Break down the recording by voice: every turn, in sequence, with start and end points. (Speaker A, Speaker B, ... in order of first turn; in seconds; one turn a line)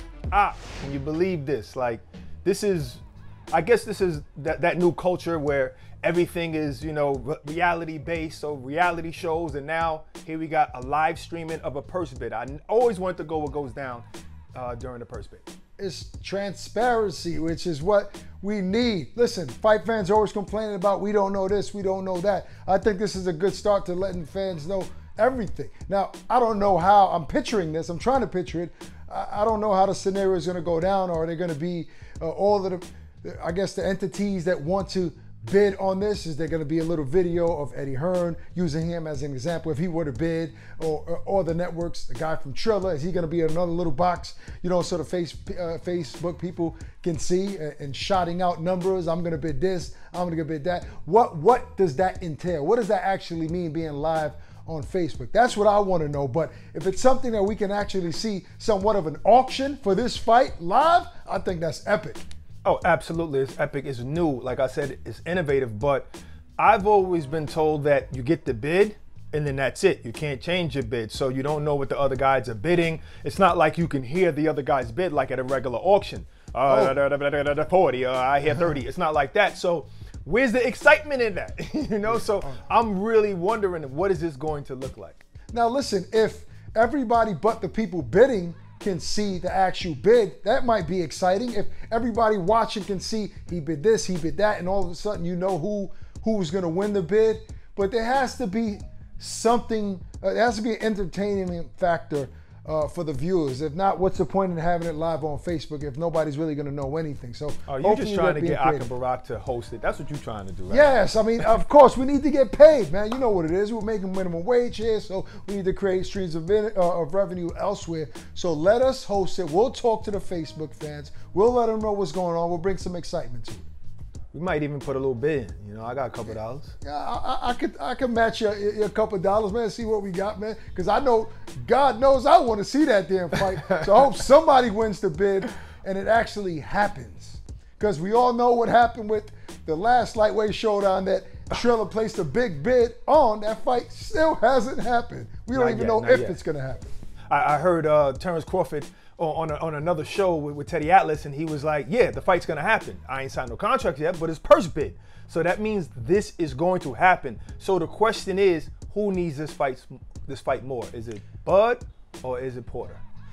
Speaker A: 0.3-15.4
Speaker B: 15.8-62.2
Speaker A: 62.6-85.2
Speaker B: 76.7-77.0
Speaker B: 85.5-108.9
Speaker A: 107.7-111.0
Speaker B: 110.7-123.7
Speaker A: 124.3-126.8
Speaker B: 126.8-146.9
Speaker A: 145.5-146.4
Speaker A: 147.3-163.0